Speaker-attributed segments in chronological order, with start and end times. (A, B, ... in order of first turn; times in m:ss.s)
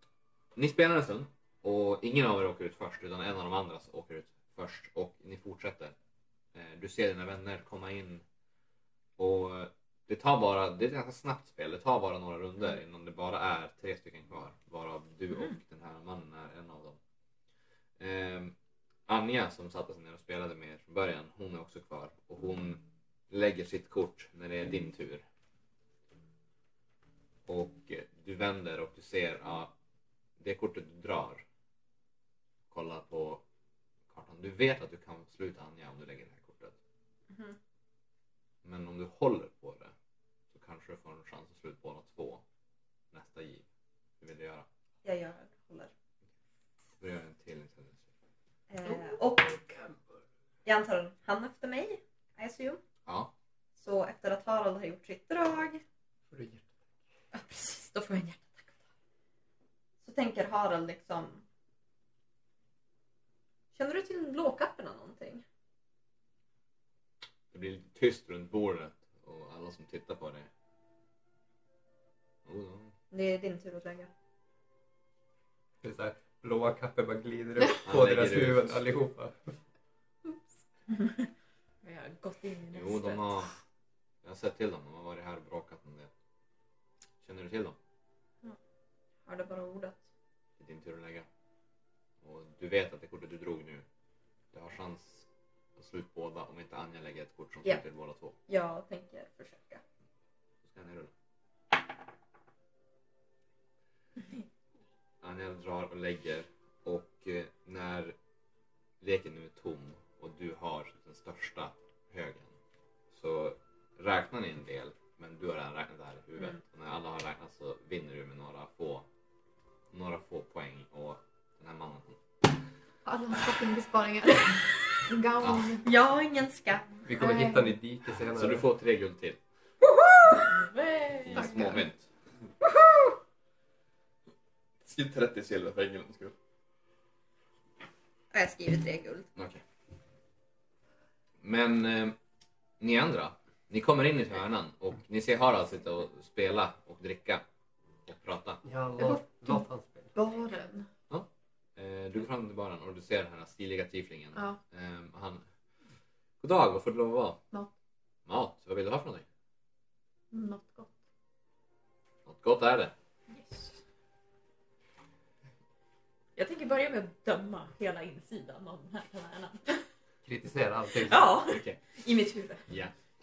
0:00.6-0:06.0 A
0:06.5-0:08.2 A
0:09.2-0:17.0 A
0:18.0-0:18.6 A
0:19.1-0:25.2 A
0:27.5-0:29.7 A
0:30.4-0:31.4 A
0:32.7-0:33.4 A
0:34.1-0:36.8 A
0:37.3-0:37.6 B
0:38.6-0:39.9 A
0:40.5-0:42.4 A
0:43.1-0:43.7 A
0:44.2-0:44.7 A
0:45.0-0:45.9 B
0:47.0-0:48.1 A
0:48.7-0:49.8 B
0:50.6-0:52.8 B
0:53.1-0:53.3 A
0:53.8-0:55.8 B
0:56.3-0:56.8 C
0:57.3-0:58.8 B
1:00.0-1:01.4 B
1:03.7-1:05.4 B
1:07.5-1:10.5 A
1:12.5-1:12.9 A
1:13.1-1:14.1 B
1:15.8-1:19.6 C
1:17.8-1:18.8 A
1:21.8-1:23.4 D
1:22.7-1:23.5 A
1:24.2-1:26.1 A
1:27.2-1:27.8 A
1:29.2-1:30.1 B
1:30.6-1:31.3 A
1:32.2-1:33.9 A
1:34.5-1:38.4 A
1:38.5-1:39.8 B
1:40.6-1:41.1 A
1:45.2-1:48.2 A
1:49.0-1:52.6 A
1:53.1-1:59.1 A
1:59.9-2:02.2 A
2:03.0-2:05.9 E
2:05.4-2:05.8 A
2:05.8-2:07.1 B
2:07.1-2:08.6 C
2:07.2-2:07.8 E
2:08.2-2:09.4 A
2:10.0-2:10.4 B
2:10.3-2:11.7 D
2:11.2-2:12.1 A
2:11.4-2:11.6 E
2:14.8-2:16.4 A
2:18.3-2:19.3 B
2:19.4-2:19.6 A
2:21.4-2:22.2 A
2:22.8-2:27.4 A
2:28.1-2:28.6 A
2:28.6-2:30.1 C
2:29.0-2:30.9 E
2:31.1-2:35.4 A
2:36.4-2:37.4 A
2:38.3-2:39.3 A
2:40.3-2:40.9 E
2:42.3-2:42.9 A
2:43.3-2:43.8 D
2:46.4-2:49.8 D
2:50.2-2:51.3 C
2:51.0-2:51.7 D
2:51.4-2:51.8 A
2:51.9-2:52.7 B
2:52.7-2:52.9 A